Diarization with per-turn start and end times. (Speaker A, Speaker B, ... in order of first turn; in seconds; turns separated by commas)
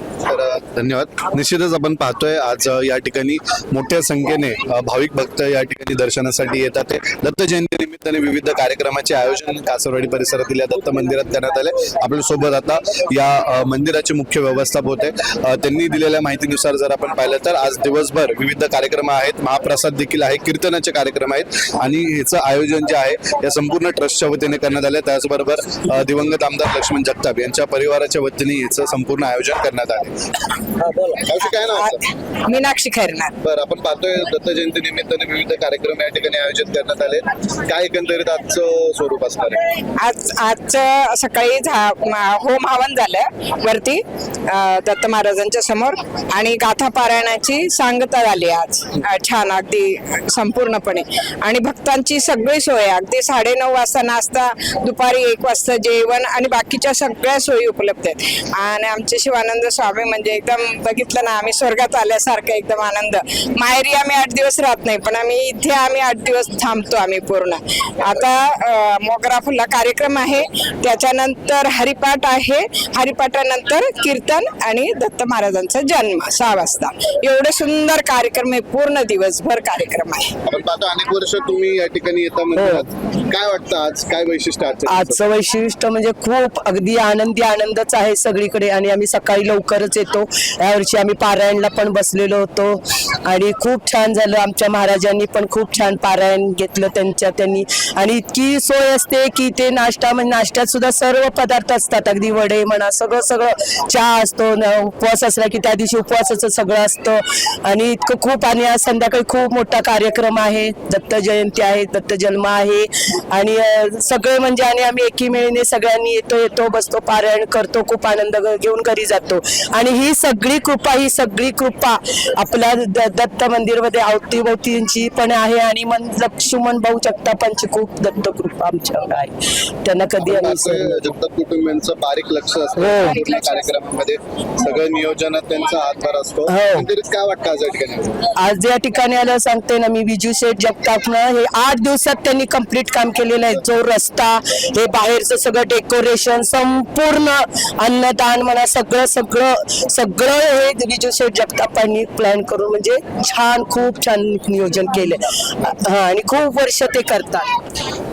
Speaker A: 0.2-30.4, Speaker B: 31.0-33.4, Speaker A: 31.2-32.0, Speaker A: 33.4-39.6, Speaker B: 40.0-80.3, Speaker A: 80.5-85.2, Speaker C: 82.5-82.8, Speaker C: 84.8-131.1, Speaker A: 130.2-138.3, Speaker C: 132.8-133.5, Speaker C: 136.5-136.9, Speaker C: 138.3-157.5